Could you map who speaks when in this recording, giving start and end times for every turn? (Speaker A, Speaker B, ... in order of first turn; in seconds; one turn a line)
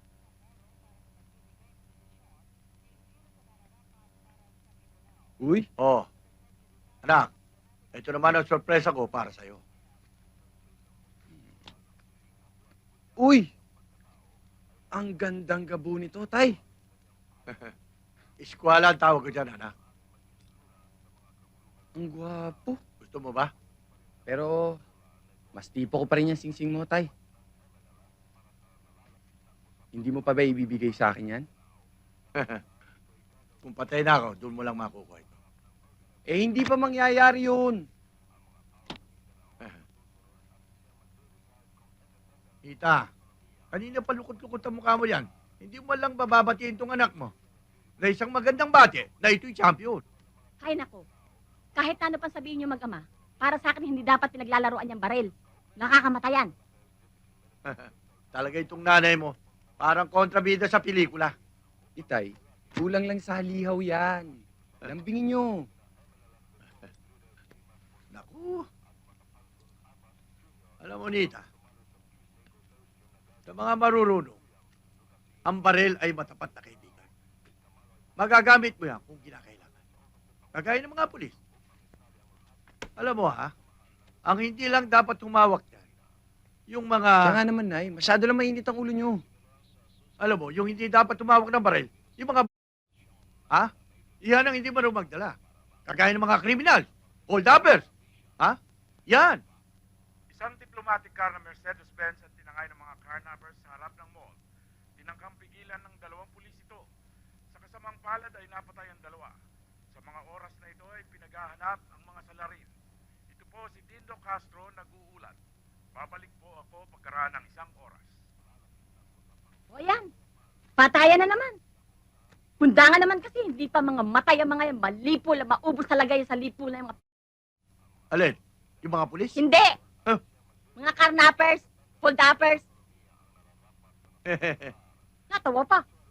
Speaker A: 5.4-5.7
Speaker B: 5.8-6.1
Speaker B: 7.9-9.6
Speaker A: 13.2-13.5
Speaker A: 14.9-16.6
Speaker B: 18.4-19.7
Speaker A: 22.0-22.8
Speaker B: 23.0-23.5
Speaker A: 24.3-24.8
Speaker A: 25.6-27.1
Speaker A: 30.0-31.4
Speaker B: 32.4-32.6
Speaker B: 33.6-35.3
Speaker A: 36.3-37.8
Speaker B: 42.6-43.1
Speaker B: 43.7-47.3
Speaker B: 48.0-50.0
Speaker C: 50.6-51.0
Speaker C: 51.8-56.5
Speaker B: 57.7-61.3
Speaker A: 62.0-64.4
Speaker A: 65.0-65.7
Speaker B: 68.1-68.7
Speaker B: 70.8-71.5
Speaker B: 73.5-74.4
Speaker B: 75.5-77.1
Speaker B: 78.2-79.7
Speaker B: 80.5-81.3
Speaker B: 83.0-83.5
Speaker B: 84.3-85.8
Speaker B: 86.7-87.4
Speaker A: 87.3-89.2
Speaker B: 90.2-92.5
Speaker B: 94.2-95.3
Speaker B: 95.9-97.8
Speaker B: 99.1-99.4
Speaker D: 100.3-104.4
Speaker D: 105.0-106.8
Speaker D: 107.5-109.3
Speaker D: 110.0-112.7
Speaker D: 113.3-115.4
Speaker D: 116.0-118.1
Speaker C: 119.7-120.1
Speaker C: 120.8-121.5
Speaker C: 122.6-127.0
Speaker B: 128.1-129.4
Speaker C: 129.4-129.7
Speaker C: 130.8-132.6
Speaker B: 134.3-134.7
Speaker C: 135.3-135.8